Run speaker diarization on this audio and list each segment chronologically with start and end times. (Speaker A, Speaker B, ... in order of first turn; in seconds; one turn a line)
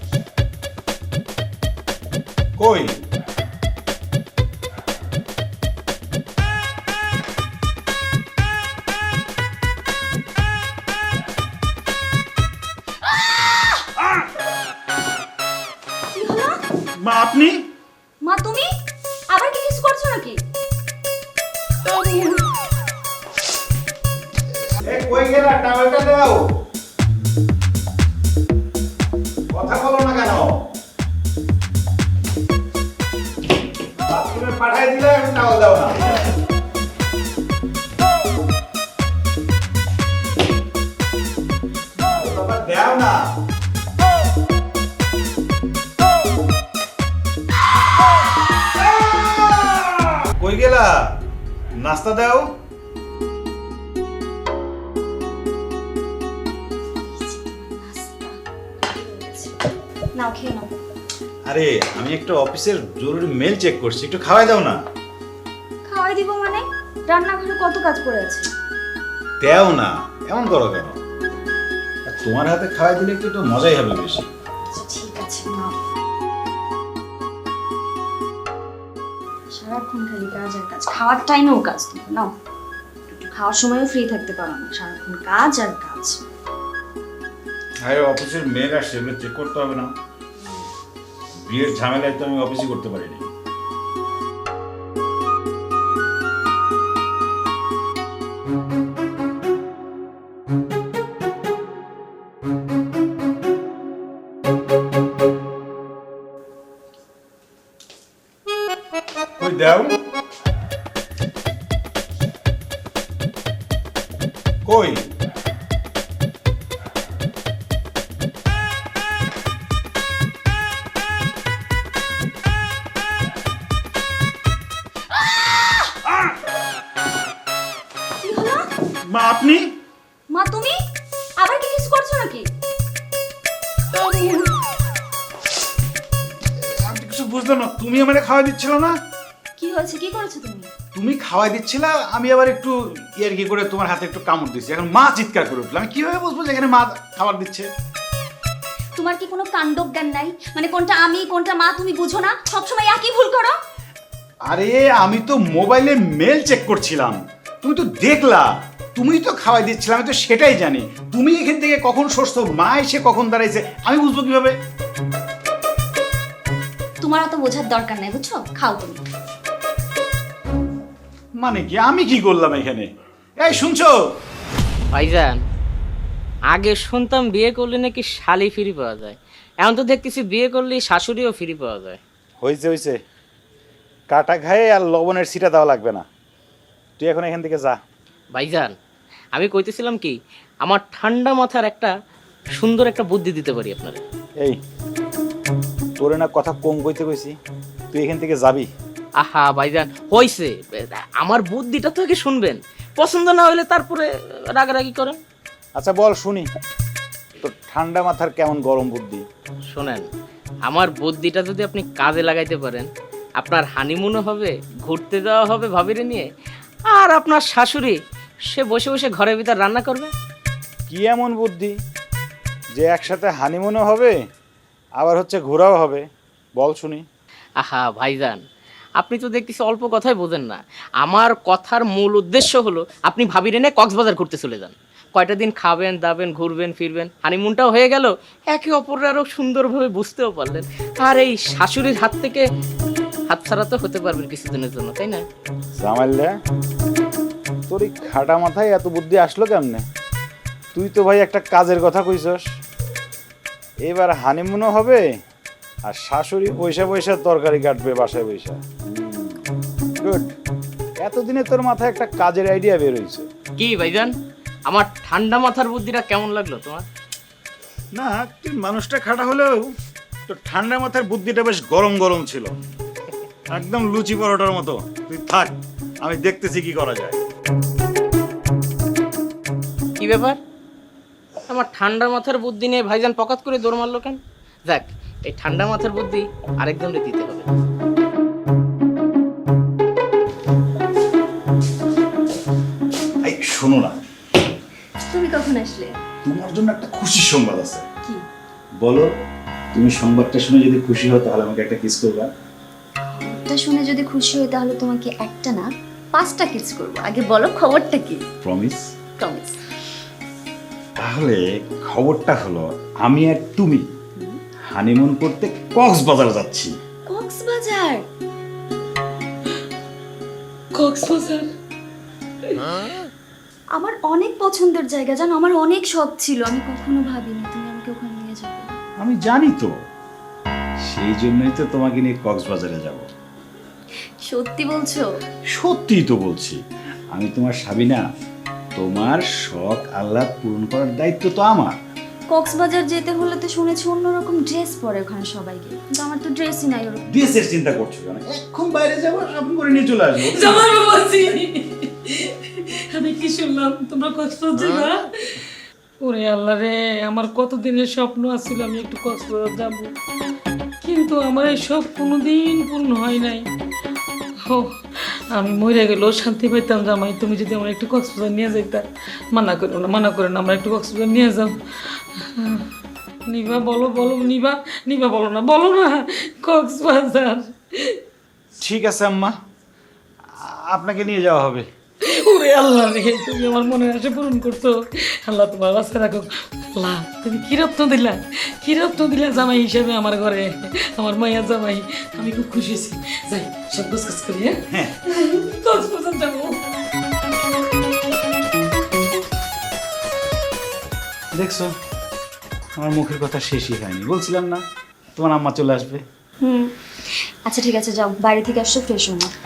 Speaker A: 2.6-2.9
Speaker B: 16.1-16.6
Speaker A: 17.0-17.6
Speaker B: 18.2-18.7
Speaker B: 19.3-20.4
Speaker B: 21.8-22.4
Speaker A: 24.8-26.4
Speaker A: 29.5-30.5
Speaker A: 34.1-36.1
Speaker A: 42.0-43.3
Speaker A: 50.4-51.1
Speaker A: 51.8-52.5
Speaker B: 57.0-59.5
Speaker B: 60.1-60.7
Speaker A: 61.5-64.8
Speaker B: 65.8-68.5
Speaker A: 69.4-71.0
Speaker A: 72.1-74.3
Speaker B: 74.7-75.8
Speaker B: 79.5-82.3
Speaker B: 83.1-86.2
Speaker A: 87.8-89.9
Speaker A: 91.4-93.3
Speaker A: 109.4-110.0
Speaker A: 114.6-115.0
Speaker B: 128.2-128.6
Speaker A: 129.1-129.7
Speaker B: 130.3-130.7
Speaker B: 131.4-132.4
Speaker B: 133.9-134.5
Speaker A: 136.6-138.9
Speaker B: 139.6-140.7
Speaker A: 140.9-147.7
Speaker B: 148.9-153.6
Speaker A: 154.5-164.5
Speaker B: 167.0-169.0
Speaker A: 171.4-173.9
Speaker C: 174.9-175.4
Speaker C: 176.5-182.0
Speaker A: 182.4-182.9
Speaker A: 184.1-186.0
Speaker A: 187.0-187.8
Speaker C: 188.3-188.7
Speaker C: 189.3-191.9
Speaker C: 192.6-194.0
Speaker A: 196.0-197.3
Speaker A: 197.9-198.7
Speaker C: 199.2-205.2
Speaker A: 205.8-206.5
Speaker A: 207.4-209.2
Speaker C: 209.7-210.1
Speaker C: 210.7-212.9
Speaker C: 213.4-216.3
Speaker C: 216.9-218.0
Speaker C: 218.5-220.1
Speaker A: 220.9-221.7
Speaker A: 222.7-224.2
Speaker A: 225.0-226.0
Speaker A: 226.6-227.0
Speaker C: 227.6-228.4
Speaker C: 229.0-242.4
Speaker C: 243.3-245.2
Speaker A: 245.8-246.3
Speaker A: 247.7-249.8
Speaker A: 250.7-252.4
Speaker A: 253.8-255.0
Speaker A: 255.8-259.4
Speaker A: 260.0-260.3
Speaker A: 261.0-263.3
Speaker C: 263.6-264.1
Speaker C: 264.7-266.9
Speaker A: 267.9-269.7
Speaker A: 270.3-272.5
Speaker A: 273.5-277.2
Speaker C: 280.0-280.4
Speaker C: 281.5-287.5
Speaker A: 293.2-293.9
Speaker B: 295.0-296.0
Speaker A: 296.2-297.8
Speaker A: 298.8-299.1
Speaker A: 299.7-302.3
Speaker B: 303.1-308.2
Speaker A: 308.4-308.8
Speaker B: 309.2-309.6
Speaker A: 311.0-313.8
Speaker A: 314.7-316.7
Speaker B: 317.1-318.0
Speaker D: 320.7-321.5
Speaker B: 323.7-328.8
Speaker A: 329.0-329.7
Speaker A: 330.8-333.1
Speaker B: 334.2-335.1
Speaker A: 335.5-336.6
Speaker A: 337.1-338.0
Speaker A: 338.8-341.8
Speaker B: 342.3-347.0
Speaker A: 347.1-350.6
Speaker D: 350.2-355.4
Speaker D: 356.0-359.9
Speaker D: 360.8-363.4
Speaker D: 364.4-372.7
Speaker D: 373.2-378.0
Speaker A: 378.6-379.3
Speaker A: 380.4-381.6
Speaker D: 382.0-396.6
Speaker A: 401.3-401.7
Speaker A: 402.8-404.6
Speaker A: 405.1-406.0
Speaker B: 406.4-406.7
Speaker B: 407.4-409.3